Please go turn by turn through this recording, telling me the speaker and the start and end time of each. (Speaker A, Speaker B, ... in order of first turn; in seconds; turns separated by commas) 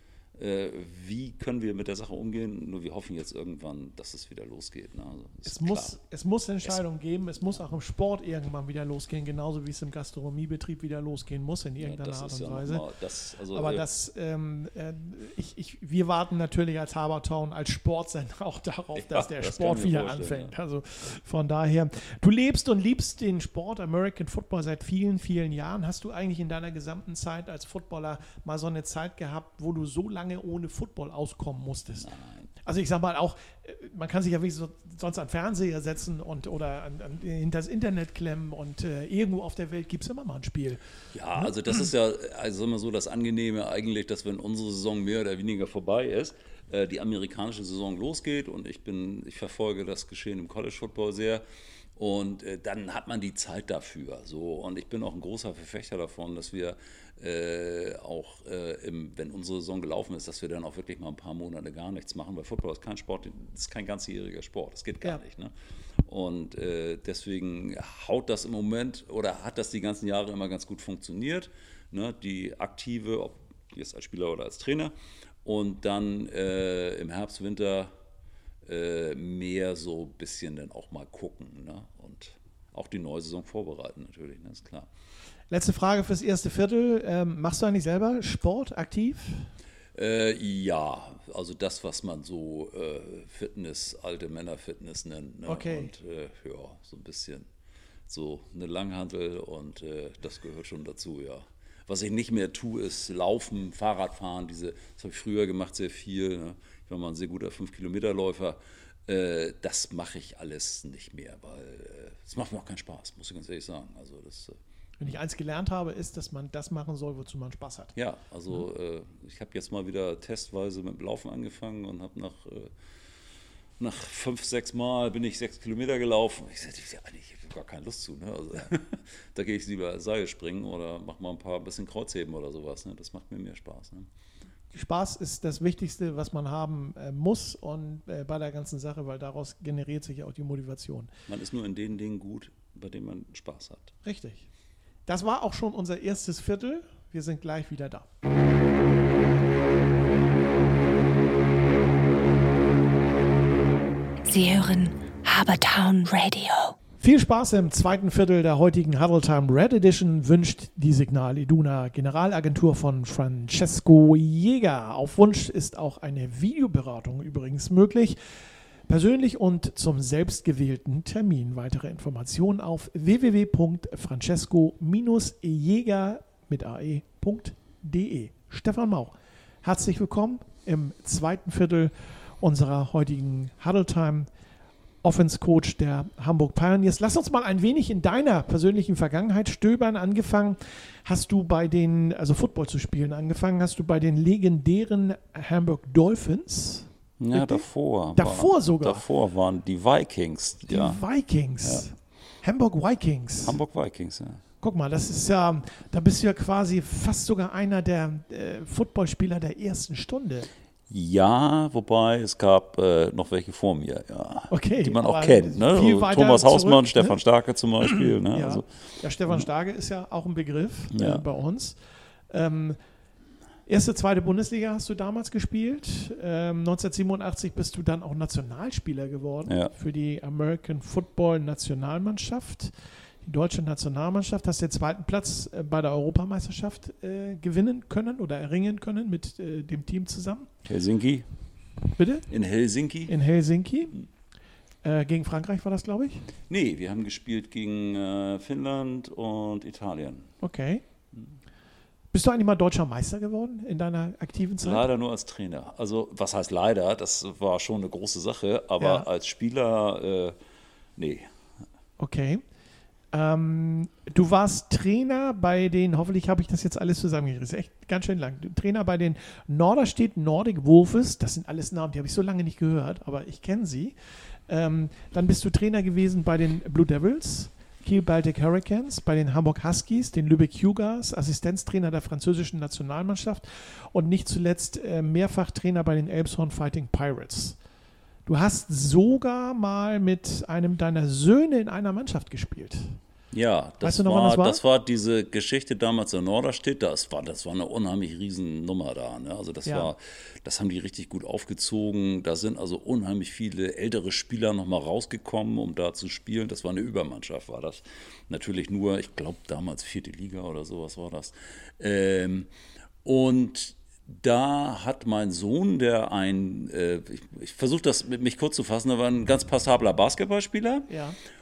Speaker A: 0.3-6.0, Speaker B: 5.4-12.8, Speaker A: 11.8-13.8, Speaker B: 13.5-32.1, Speaker A: 18.9-20.5, Speaker A: 32.0-32.5, Speaker B: 32.6-40.8, Speaker A: 41.1-51.4, Speaker A: 52.0-65.5, Speaker A: 66.0-74.9, Speaker A: 75.4-77.9, Speaker A: 78.6-84.9, Speaker B: 85.5-89.5, Speaker A: 89.9-97.5, Speaker B: 95.5-95.9, Speaker A: 98.1-114.6, Speaker B: 115.0-117.9, Speaker A: 117.9-122.7, Speaker A: 123.8-134.1, Speaker B: 134.7-141.1, Speaker A: 141.3-143.9, Speaker B: 144.0-144.5, Speaker B: 145.1-148.1, Speaker C: 154.2-156.8, Speaker B: 157.0-168.2, Speaker B: 168.9-184.3, Speaker B: 185.0-199.0, Speaker A: 197.2-201.0, Speaker B: 200.7-203.6, Speaker A: 203.4-204.4, Speaker B: 204.6-210.5, Speaker A: 210.9-218.7, Speaker B: 214.5-217.2, Speaker B: 217.8-221.8, Speaker A: 220.9-221.2, Speaker B: 222.3-222.8, Speaker B: 223.7-232.7, Speaker A: 229.5-229.7, Speaker B: 233.2-240.5, Speaker A: 240.6-241.3, Speaker B: 241.9-242.3, Speaker A: 242.3-243.1, Speaker B: 243.1-244.0, Speaker B: 244.8-246.3, Speaker A: 246.5-250.3, Speaker B: 250.4-250.8, Speaker B: 252.1-254.8, Speaker A: 254.6-260.4, Speaker B: 258.8-259.1, Speaker A: 261.0-261.3, Speaker B: 262.0-262.4, Speaker B: 263.1-273.9, Speaker B: 274.5-287.6, Speaker B: 288.2-293.0, Speaker A: 293.3-312.5, Speaker B: 293.8-294.6, Speaker B: 299.6-299.9, Speaker A: 313.0-320.9, Speaker B: 320.9-321.2